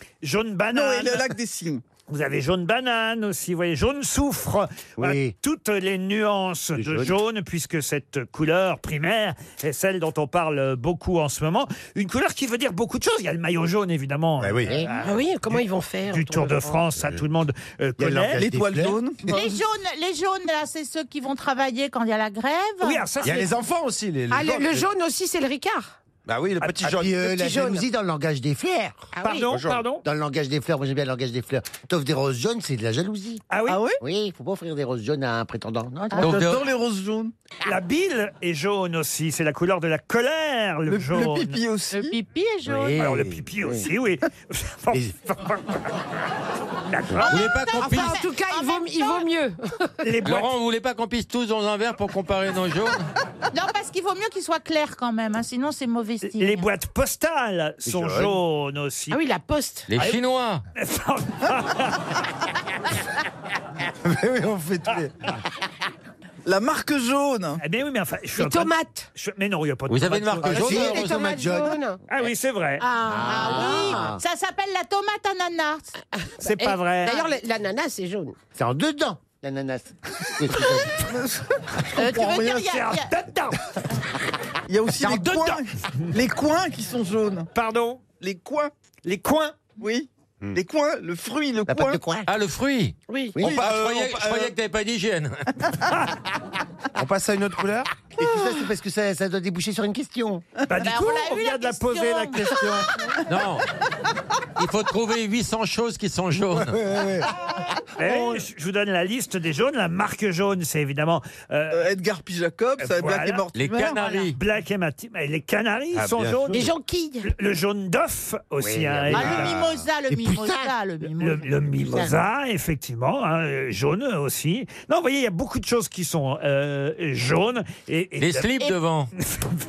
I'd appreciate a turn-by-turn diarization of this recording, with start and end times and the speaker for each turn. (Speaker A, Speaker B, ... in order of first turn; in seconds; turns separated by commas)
Speaker A: 0.2-1.2, Speaker B: 0.7-1.8, Speaker A: 2.1-18.5, Speaker C: 5.0-5.3, Speaker C: 6.8-7.1, Speaker D: 14.4-14.8, Speaker E: 15.0-16.8, Speaker C: 18.0-19.0, Speaker B: 18.4-19.5, Speaker F: 19.2-23.0, Speaker A: 22.8-23.5, Speaker D: 23.2-24.9, Speaker E: 24.3-26.0, Speaker D: 26.2-27.2, Speaker C: 26.8-29.1, Speaker E: 27.2-27.9, Speaker E: 29.1-29.6, Speaker A: 29.2-30.0, Speaker D: 29.5-29.8, Speaker C: 30.0-33.4, Speaker A: 33.5-33.8, Speaker B: 33.7-34.0, Speaker C: 34.0-36.4, Speaker F: 36.1-36.4, Speaker G: 36.2-36.6, Speaker B: 36.2-37.3, Speaker A: 37.6-41.6, Speaker B: 40.9-42.2, Speaker F: 41.9-43.0, Speaker G: 42.6-43.3, Speaker A: 43.0-45.8, Speaker A: 46.9-47.2, Speaker F: 47.1-49.3, Speaker G: 47.3-48.2, Speaker E: 47.8-49.9, Speaker A: 50.0-50.5, Speaker G: 50.2-53.1, Speaker F: 53.5-56.6, Speaker A: 56.2-59.2, Speaker D: 57.9-58.3, Speaker C: 57.9-58.2, Speaker E: 59.1-59.9, Speaker G: 59.9-60.6, Speaker A: 60.8-62.0, Speaker D: 64.0-65.1, Speaker B: 66.5-67.6, Speaker A: 67.6-70.7, Speaker E: 68.4-69.1, Speaker G: 69.9-71.4, Speaker C: 70.4-71.8, Speaker E: 70.6-72.0, Speaker A: 72.1-72.9, Speaker E: 72.8-74.2, Speaker C: 73.1-74.2, Speaker F: 73.2-75.9, Speaker E: 76.2-78.4, Speaker A: 76.4-77.3, Speaker C: 78.5-81.1, Speaker B: 81.0-81.4, Speaker F: 81.9-83.1, Speaker A: 82.0-83.6, Speaker B: 84.7-87.5, Speaker D: 85.0-85.6, Speaker A: 87.5-88.0, Speaker B: 88.2-88.7, Speaker A: 89.0-89.6, Speaker B: 89.8-92.0, Speaker C: 91.7-92.3, Speaker G: 92.3-95.6, Speaker E: 93.1-93.4, Speaker D: 93.4-94.5, Speaker D: 97.0-98.0, Speaker C: 98.1-100.5, Speaker A: 100.7-102.9, Speaker F: 100.8-103.2, Speaker G: 103.3-103.7, Speaker G: 104.6-106.8, Speaker D: 106.5-107.2, Speaker A: 108.0-111.9, Speaker B: 111.7-114.0, Speaker A: 112.8-113.4, Speaker G: 113.5-114.4, Speaker A: 114.3-116.7, Speaker D: 115.9-116.7, Speaker E: 116.5-117.3, Speaker A: 117.2-119.6, Speaker C: 118.6-120.7, Speaker F: 119.1-121.6, Speaker A: 121.1-128.5, Speaker G: 128.2-129.1, Speaker A: 129.2-129.5